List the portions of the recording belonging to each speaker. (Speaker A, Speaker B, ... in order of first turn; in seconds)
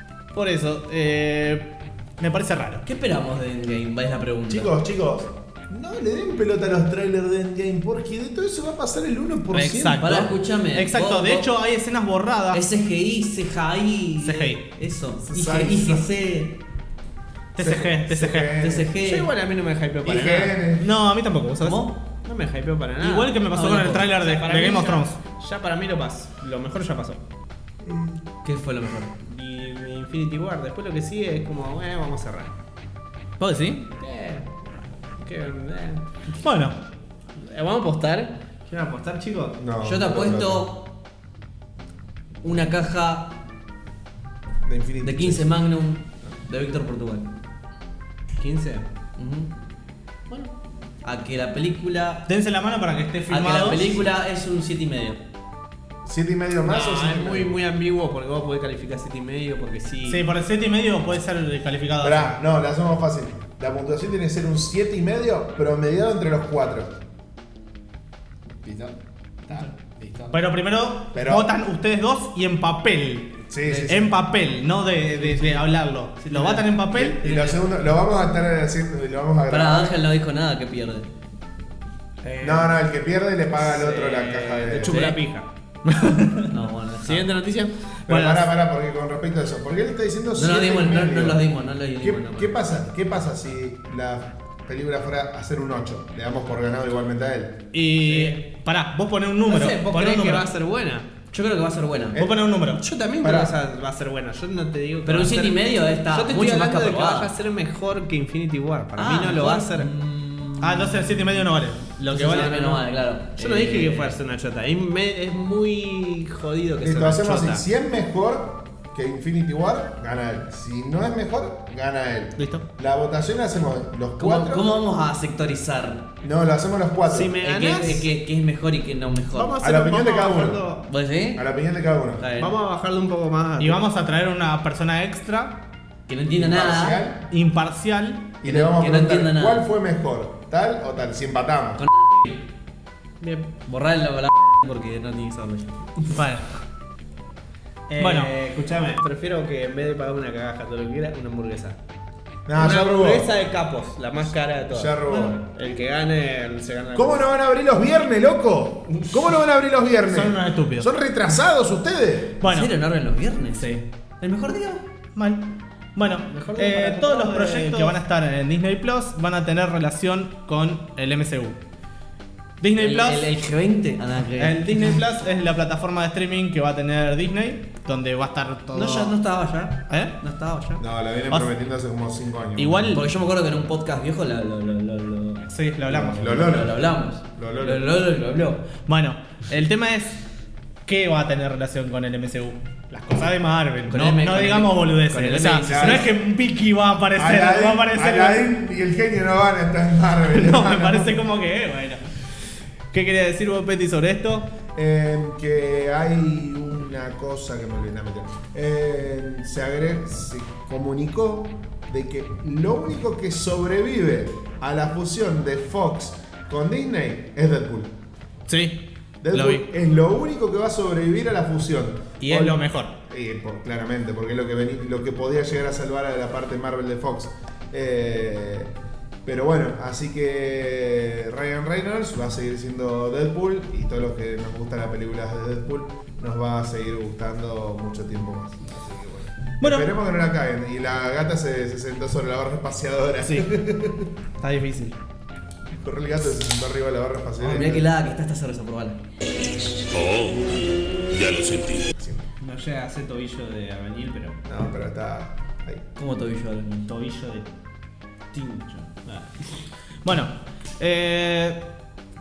Speaker A: 0.3-2.8, 9.5-12.6, 14.2-14.6, 17.6-18.6, 20.8-21.9, 23.0-25.2, 33.4-33.9, 36.4-36.8, 52.3-54.1, 60.1-62.4, 70.3-77.3, 85.8-86.5, 88.0-88.5, 97.7-100.5, 102.1-102.8, 110.6-112.8, 133.6-135.6, 137.3-138.4, 146.1-146.4, 148.0-148.3, 160.1-160.9, 162.4-162.7, 163.6-163.8, 165.2-171.6, 172.6-173.3, 174.4-179.2, 179.9-180.2, 182.6-183.1, 185.5-186.5, 188.8-190.2, 190.9-198.4, 200.3-202.0, 202.9-204.5, 218.5-219.7, 222.2-222.9, 239.6-239.9, 244.4-245.0, 260.0-261.6
Speaker B: 2.9-4.7, 10.0-11.5, 12.5-16.6, 18.6-19.3, 21.6-22.0, 23.5-24.1, 28.4-29.1, 39.8-40.9, 42.4-43.4, 45.0-47.3, 49.2-49.5, 51.0-52.3, 53.3-55.2, 73.6-73.9, 77.2-77.5, 79.5-81.1, 84.9-85.2, 86.5-87.3, 90.4-92.6, 101.3-102.2, 105.1-107.3, 109.0-111.1, 112.1-114.2, 124.2-126.1, 127.4-129.6, 130.9-131.4, 132.2-132.5, 136.1-137.0, 138.4-139.7, 141.8-142.4, 143.2-145.9, 162.4-164.8, 172.8-175.0, 178.7-180.8, 182.9-188.7, 193.9-196.1, 247.4-249.0, 256.0-256.9
Speaker C: 4.5-10.3, 15.2-16.1, 17.6-18.9, 20.0-20.9, 39.6-40.7, 44.6-45.5, 56.0-57.5, 62.0-67.0, 71.1-71.5, 73.5-74.1, 76.9-80.0, 82.4-85.2, 88.1-91.4, 92.0-97.6, 102.2-102.4, 103.2-103.5, 116.8-124.8, 126.2-127.4, 129.6-130.6, 131.3-132.3, 136.3-137.3, 138.4-141.8, 152.5-153.3, 154.7-155.4, 156.9-162.4, 180.8-183.0, 186.1-187.9, 195.7-196.1, 197.2-201.2, 204.8-217.9, 219.2-228.7, 229.2-244.1, 245.8-247.9, 251.9-252.2, 254.5-255.8
Speaker D: 18.9-20.6, 22.2-23.4, 24.1-27.2, 29.2-32.5, 34.0-36.4, 37.4-39.6, 48.4-48.9, 56.6-60.3, 68.6-70.4, 75.3-75.6, 76.2-76.7, 82.2-82.8, 83.6-85.5, 87.0-87.8, 98.0-98.4, 99.5-101.1, 102.7-109.9, 112.2-112.8, 113.3-117.6, 127.1-128.1, 129.3-130.9, 132.4-133.8, 147.9-151.8, 152.6-157.2, 158.9-159.3, 166.3-168.0, 252.4-254.4, 256.9-257.5, 258.3-259.5
Speaker E: 249.9-251.9